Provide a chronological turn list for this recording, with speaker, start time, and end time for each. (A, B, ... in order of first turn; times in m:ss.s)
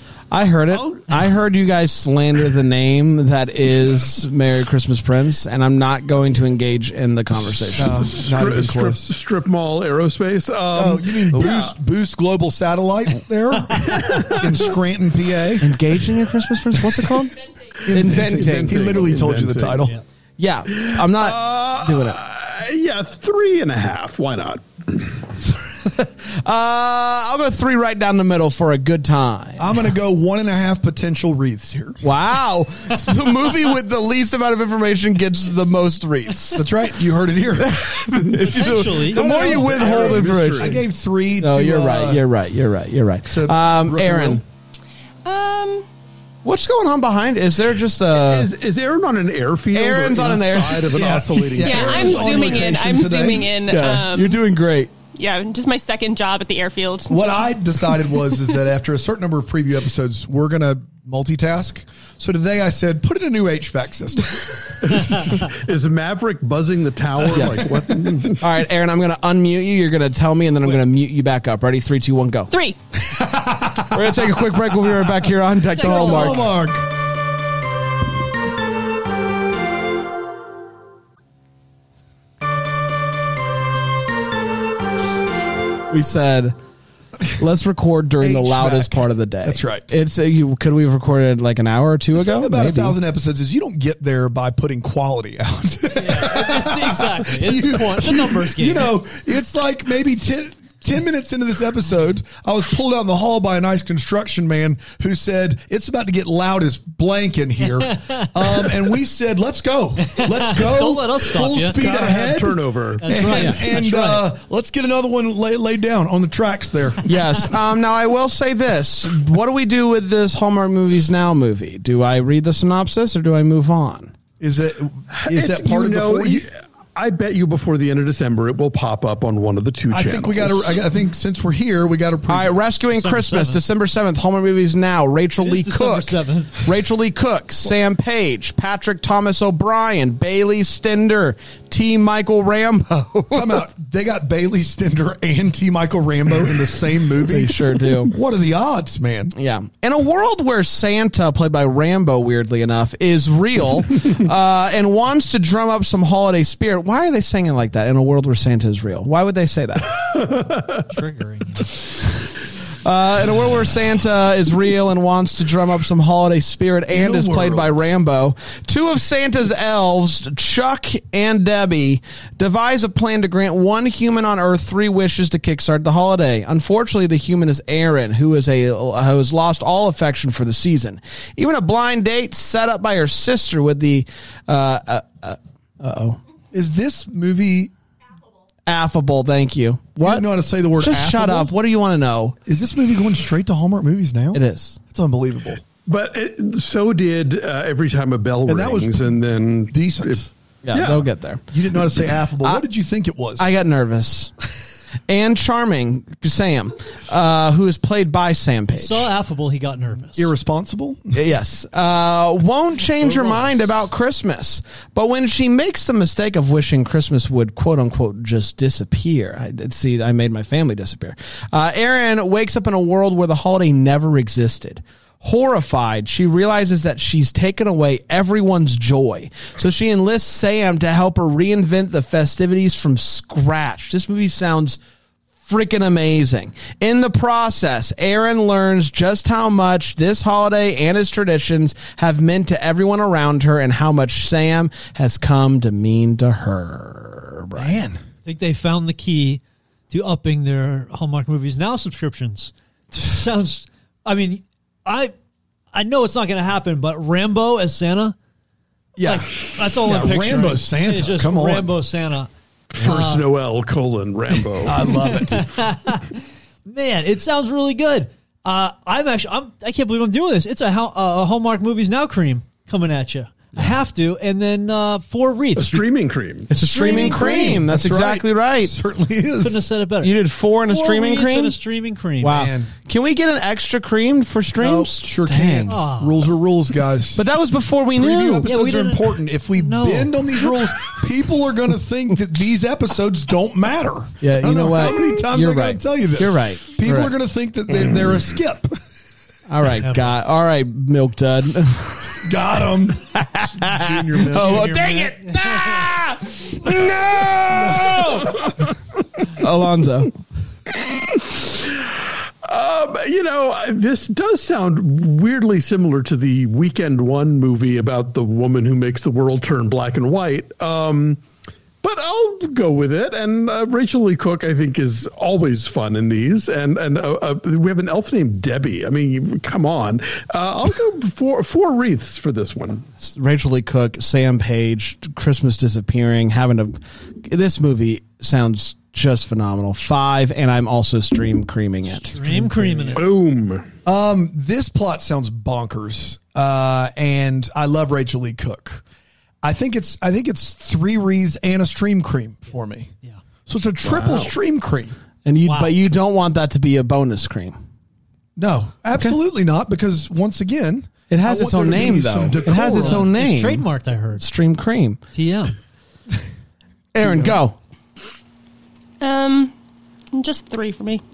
0:00.3-0:08.1 A
0:00.7-0:01.0 B
0:07.8-0:09.1 C
0:07.9-0:11.7 B
0:10.7-0:15.7 C
0:13.8-0:14.6 B
0:15.6-0:17.4 A
0:17.8-0:20.0 C
0:17.9-0:19.1 A
0:17.9-0:19.9 B
0:20.4-0:22.2 A
0:20.7-0:25.1 B
0:25.5-0:29.8 A
0:29.6-0:32.0 C
0:32.0-0:36.7 A
0:36.5-0:37.8 C
0:37.6-0:40.8 A
0:38.4-0:39.5 D
0:39.1-0:40.8 B
0:39.2-0:42.2 C
0:41.4-0:44.4 A
0:43.3-0:44.4 C
0:45.2-0:45.9 E
0:46.4-0:48.5 A
0:48.1-0:52.9 B
0:49.7-0:51.0 A
0:50.9-0:53.5 C
0:51.6-0:54.4 E
0:53.7-0:54.9 A
0:55.1-0:57.6 E
0:57.1-1:04.6 C
1:04.8-1:08.4 B
1:07.3-1:07.7 A
1:07.3-1:08.3 C
1:08.4-1:12.5 A
1:12.5-1:12.8 E
1:13.1-1:14.3 C
1:13.9-1:16.5 A
1:15.8-1:16.9 C
1:15.8-1:16.3 E
1:25.9-1:26.6 A
1:27.3-1:33.0 A
1:28.2-1:29.9 C
1:32.2-1:57.1 C
1:36.0-1:38.9 D
1:47.6-1:48.7 D
1:50.0-1:52.0 D
1:51.8-1:53.3 B
1:53.0-1:54.3 D
1:57.1-2:04.1 A
2:04.4-2:06.5 C
2:05.1-2:10.8 B
2:09.9-2:12.7 C
2:12.3-2:23.6 A
2:12.9-2:13.6 D
2:15.4-2:16.7 D
2:23.3-2:29.3 C
2:27.2-2:28.1 A
2:29.3-2:39.9 A
2:40.1-2:40.9 B
2:40.9-2:41.8 D
2:42.8-3:06.2 A
2:46.9-2:47.9 C
3:06.5-3:07.7 C
3:08.7-3:12.4 A
3:10.0-3:11.6 C
3:12.5-3:15.6 C
3:14.3-3:14.8 A
3:15.9-3:20.2 B
3:18.5-3:19.2 C
3:19.7-3:20.3 C
3:20.6-3:21.5 A
3:20.7-3:21.1 B
3:21.5-3:23.5 C
3:23.4-3:24.3 A
3:25.1-3:29.1 A
3:28.7-3:30.3 D
3:30.1-3:31.2 C
3:31.1-3:54.8 A
3:32.9-3:33.7 D
3:55.4-4:07.8 A
4:07.6-4:08.0 C
4:08.2-4:15.1 D
4:15.7-4:18.2 D
4:19.0-4:21.8 C
4:19.0-4:23.3 D
4:22.7-4:24.9 B
4:24.6-4:25.5 C
4:25.0-4:35.9 D
4:35.6-4:36.5 B
4:36.5-4:38.8 A
4:36.6-4:39.7 C
4:36.7-4:37.7 D
4:39.4-4:40.1 D
4:40.0-4:41.6 A
4:40.7-4:42.5 D
4:42.2-4:45.8 A
4:42.3-4:42.7 C
4:44.6-4:47.2 C
4:45.7-4:46.3 D
4:47.2-4:48.5 A
4:48.0-4:58.8 C
4:48.4-4:50.5 D
4:54.2-4:57.1 A
4:59.5-5:02.3 A
4:59.8-5:00.2 D
5:02.2-5:04.7 C
5:02.9-5:08.5 A
5:04.3-5:05.9 D
5:07.6-5:08.2 C
5:09.2-5:10.1 A
5:11.5-5:21.2 B
5:21.8-5:32.9 B
5:33.0-5:42.2 A
5:42.0-5:43.1 D
5:42.2-5:43.0 C
5:42.9-5:43.7 B
5:43.9-5:48.8 C
5:49.4-5:52.9 C
5:53.5-5:55.0 C
5:54.0-5:54.3 B
5:55.2-5:57.6 A
5:55.4-5:55.8 D
5:58.4-6:03.1 C
6:01.1-6:05.0 A
6:02.6-6:04.2 D
6:05.1-6:05.6 D
6:06.9-6:07.6 A
6:07.0-6:07.4 C
6:09.0-6:09.5 E
6:10.1-6:11.0 E